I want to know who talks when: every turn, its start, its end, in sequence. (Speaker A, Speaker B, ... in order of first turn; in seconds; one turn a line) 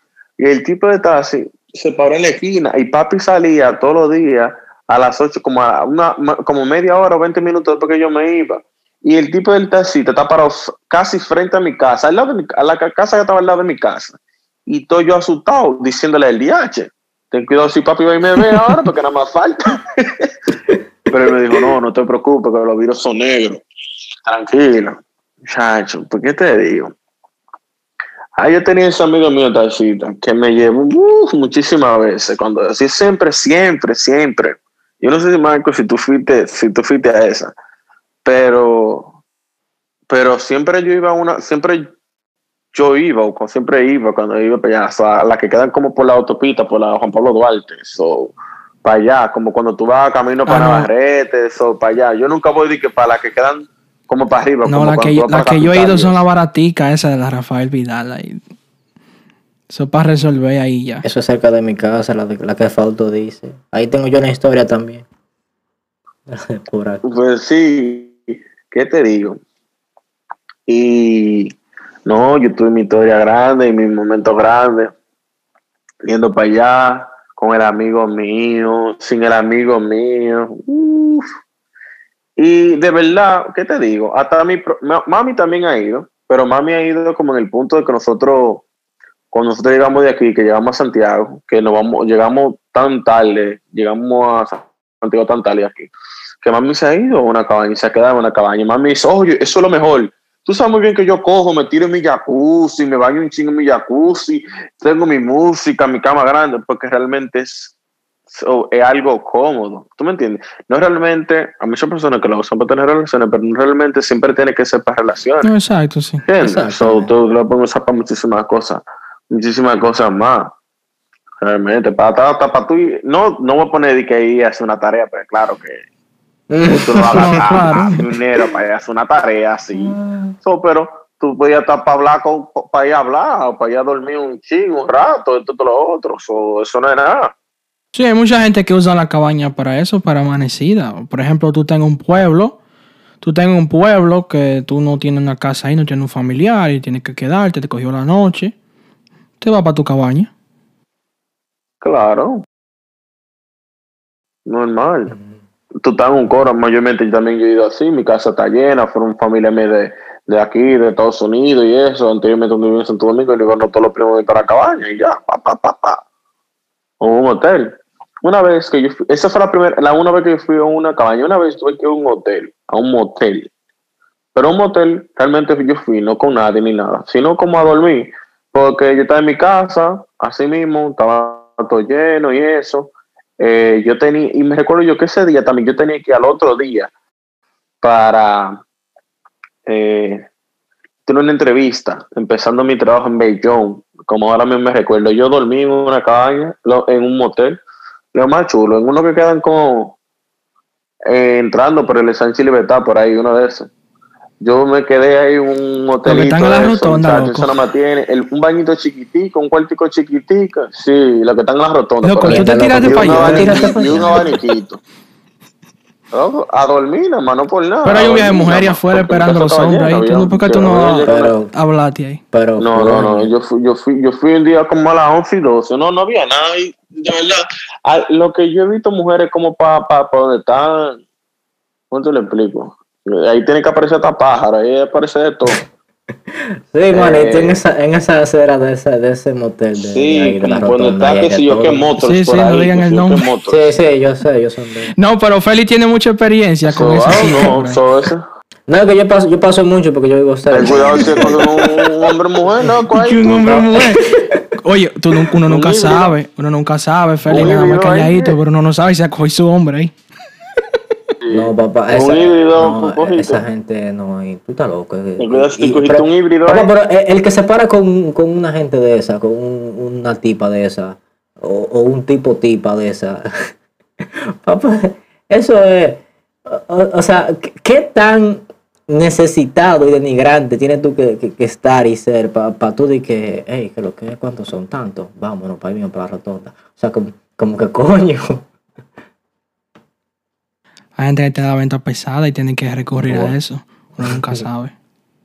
Speaker A: 0.4-20.3
Speaker A: 21.1-23.6
Speaker A: 24.3-26.9
Speaker A: 28.4-37.5
Speaker A: 38.2-39.1
Speaker A: 40.1-41.9
Speaker A: 42.7-48.3
Speaker A: 48.8-56.2
Speaker B: 50.5-50.9
Speaker B: 54.6-58.4
Speaker B: 59.7-61.0
Speaker C: 61.0-65.1
Speaker C: 66.3-67.0
Speaker A: 67.0-69.4
Speaker A: 70.7-71.5
Speaker A: 72.1-74.9
Speaker A: 76.0-81.3
Speaker A: 82.4-88.6
Speaker A: 89.3-95.9
Speaker A: 96.4-107.7
Speaker A: 108.3-115.5
Speaker B: 115.4-116.2
Speaker A: 116.2-120.5
Speaker C: 116.4-117.2
Speaker A: 121.4-125.8
Speaker C: 126.5-128.0
Speaker A: 126.7-137.3
Speaker B: 127.1-128.0
Speaker C: 129.8-130.3
Speaker B: 137.9-142.6
Speaker B: 143.2-148.5
Speaker B: 149.4-150.3
Speaker A: 151.8-152.4
Speaker A: 154.5-155.2
Speaker A: 155.8-166.0
Speaker A: 167.0-173.5
Speaker A: 174.3-186.9
Speaker A: 187.8-188.6
Speaker A: 189.7-190.3
Speaker A: 191.1-197.6
Speaker A: 198.1-200.0
Speaker A: 201.1-203.7
Speaker A: 204.4-214.8
Speaker B: 206.1-207.5
Speaker B: 212.0-214.2
Speaker C: 212.2-214.4
Speaker A: 216.1-221.3
Speaker B: 217.8-222.2
Speaker C: 221.1-221.5
Speaker C: 222.3-223.3
Speaker A: 222.6-231.0
Speaker A: 231.9-235.6
Speaker C: 236.3-241.9
Speaker A: 236.9-237.6
Speaker A: 239.8-243.7
Speaker B: 242.0-243.2
Speaker C: 243.5-244.9
Speaker B: 245.0-247.8
Speaker A: 246.7-248.2
Speaker C: 248.7-252.8
Speaker A: 250.5-253.9
Speaker B: 252.9-259.9
Speaker C: 254.1-254.5
Speaker A: 255.5-256.1
Speaker A: 257.3-258.4
Speaker A: 261.2-263.4
Speaker C: 261.3-273.3
Speaker A: 265.2-266.7
Speaker C: 274.0-288.5
Speaker B: 291.0-294.7
Speaker C: 292.9-293.4
Speaker C: 294.0-294.4